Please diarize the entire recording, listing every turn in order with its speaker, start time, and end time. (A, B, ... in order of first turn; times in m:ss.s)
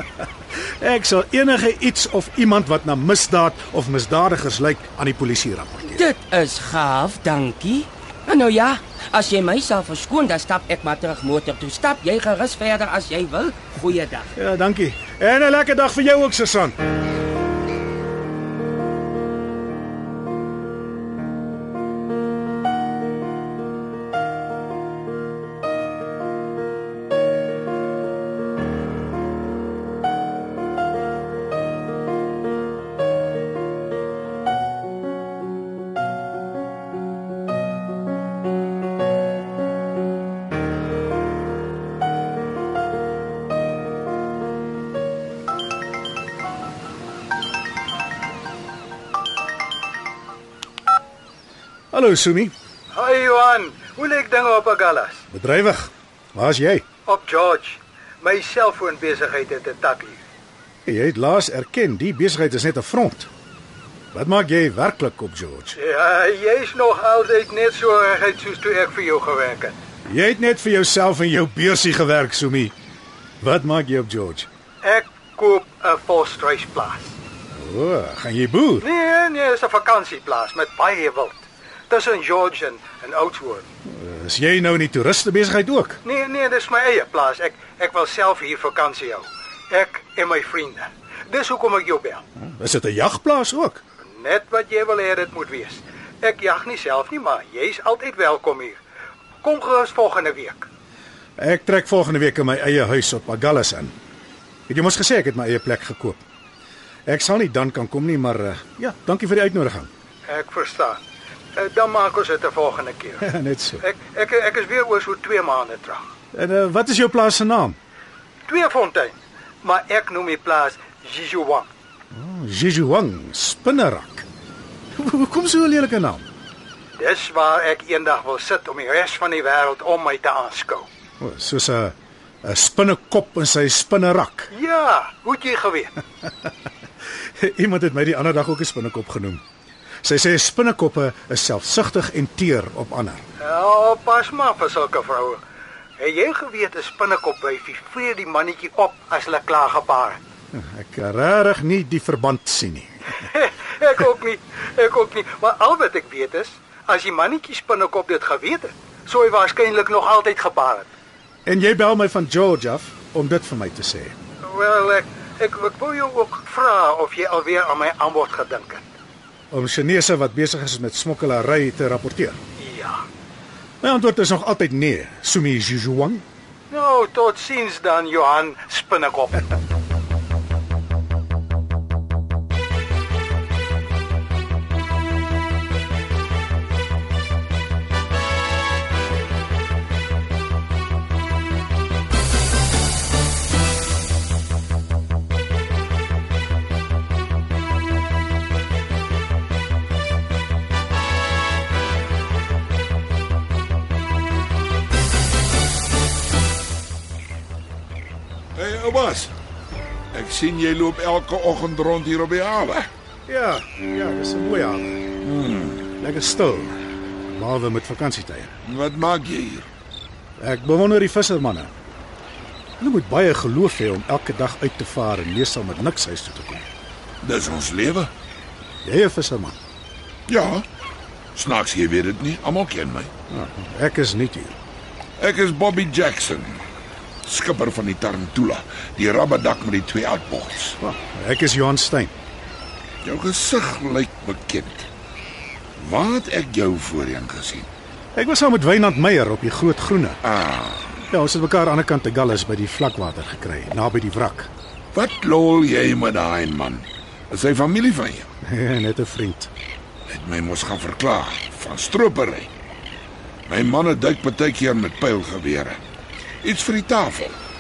0:00.8-0:06.1 A
0:06.0-0:14.3 B
0:14.4-0:16.8 A
0:51.9-0:52.5 A
0:52.9-0:55.2 C
0:55.3-0:56.9 A
0:57.1-1:00.2 C
1:00.9-1:03.3 A
1:04.1-1:05.8 A
1:05.8-1:09.7 C
1:10.1-1:12.7 A
1:13.4-1:14.5 A
1:14.8-1:17.1 C
1:17.5-1:18.9 A
1:18.9-1:23.6 C
1:23.9-1:26.0 A
1:26.1-1:32.2 C
1:32.4-1:33.8 A
1:34.2-1:38.8 C
1:39.4-1:40.6 C
1:41.4-1:44.0 A
1:44.7-1:46.2 A
1:47.1-1:49.9 A
1:50.3-1:50.9 C
1:51.6-1:53.1 C
1:53.2-1:53.8 A
1:54.1-1:56.0 C
1:56.3-1:57.8 A
1:58.5-1:59.1 C
1:59.6-2:01.6 C
2:02.1-2:04.3 A
2:05.0-2:06.3 A
2:07.0-2:10.8 C
2:11.2-2:14.5 A
2:14.6-2:15.9 C
2:17.4-2:19.4 A
2:20.0-2:23.2 A
2:23.5-2:25.4 C
2:26.0-2:30.2 C
2:30.5-2:33.1 A
2:33.8-2:40.8 C
2:41.5-2:44.1 A
2:44.6-2:48.8 C
2:49.5-2:52.4 A
2:52.6-2:52.9 C
2:53.8-2:56.2 A
2:56.7-2:59.3 C
3:28.6-3:29.3 D
3:30.1-3:32.9 D
3:33.3-3:35.0 A
3:35.2-3:35.9 D
3:36.0-3:36.8 A
3:37.3-3:38.5 A
3:38.6-3:39.7 D
3:40.4-3:41.7 A
3:42.8-3:46.7 A
3:47.2-3:48.1 D
3:48.8-3:49.6 A
3:50.3-3:50.6 D
3:51.4-3:53.1 D
3:53.3-3:54.6 A
3:55.2-3:56.6 D
3:57.2-4:00.8 D
4:00.8-4:02.1 A
4:03.0-4:04.9 D
4:05.8-4:07.7 D
4:08.2-4:10.2 A
4:10.2-4:11.0 D
4:11.1-4:14.5 A
4:14.9-4:18.3 D
4:18.4-4:19.5 A
4:20.1-4:22.5 D
4:23.5-4:25.8 D
4:26.4-4:27.4 D